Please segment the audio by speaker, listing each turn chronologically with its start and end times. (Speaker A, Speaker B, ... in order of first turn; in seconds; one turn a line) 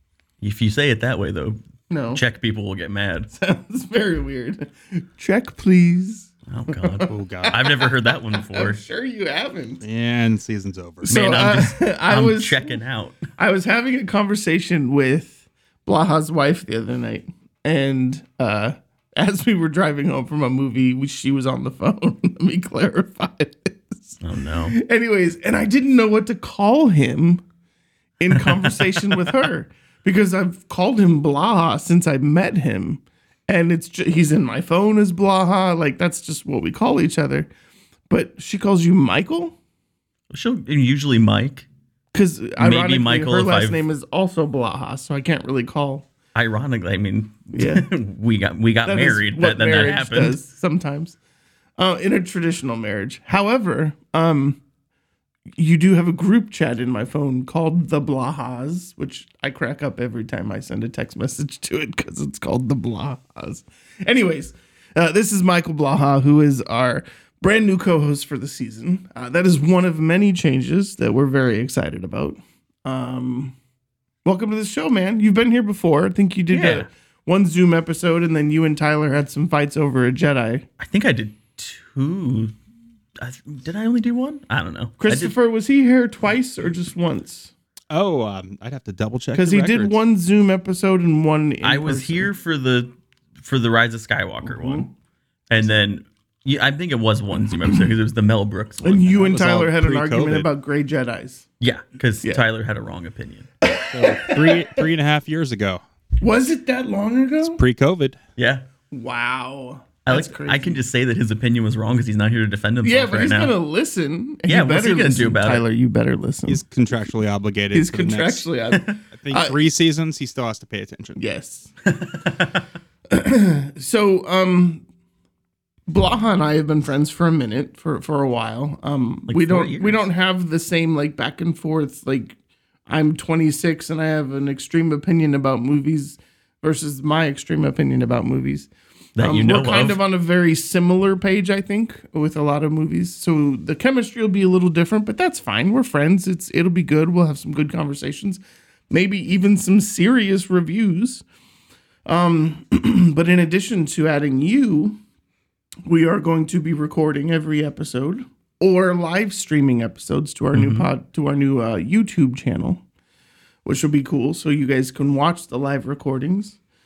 Speaker A: 0.4-1.6
Speaker B: 1.9-2.2
Speaker A: 2.1-3.3
Speaker B: 3.4-9.8
Speaker A: 6.5-8.8
Speaker C: 7.1-7.7
Speaker C: 9.8-11.2
Speaker B: 11.0-27.4
Speaker A: 11.1-13.3
Speaker A: 24.2-24.8
Speaker B: 28.2-37.5
Speaker A: 28.3-29.3
Speaker B: 38.1-39.6
Speaker A: 40.3-41.7
Speaker B: 42.1-46.1
Speaker A: 42.6-43.8
Speaker A: 46.4-50.4
Speaker B: 47.5-47.9
Speaker B: 48.9-51.2
Speaker B: 51.8-54.6
Speaker B: 55.6-73.5
Speaker B: 74.2-80.7
Speaker A: 76.5-76.9
Speaker A: 80.8-82.5
Speaker A: 83.2-85.3
Speaker B: 85.0-87.5
Speaker C: 87.9-90.0
Speaker B: 89.3-92.3
Speaker A: 91.6-94.9
Speaker B: 94.5-94.9
Speaker A: 95.5-99.3
Speaker B: 98.8-101.5
Speaker C: 99.2-100.5
Speaker A: 101.6-103.5
Speaker B: 103.6-104.8
Speaker C: 103.9-105.8
Speaker B: 106.2-107.6
Speaker C: 107.4-108.2
Speaker A: 108.4-108.6
Speaker B: 108.9-110.8
Speaker A: 110.1-113.5
Speaker B: 112.8-116.6
Speaker A: 114.5-115.6
Speaker C: 116.5-118.5
Speaker B: 117.7-119.6
Speaker A: 118.7-119.0
Speaker C: 119.1-121.2
Speaker B: 121.2-121.7
Speaker A: 121.9-122.6
Speaker B: 123.1-124.8
Speaker B: 125.9-151.2
Speaker A: 129.3-130.1
Speaker A: 139.2-140.0
Speaker B: 152.1-155.0
Speaker B: 155.9-162.8
Speaker A: 160.5-160.9
Speaker B: 163.7-166.6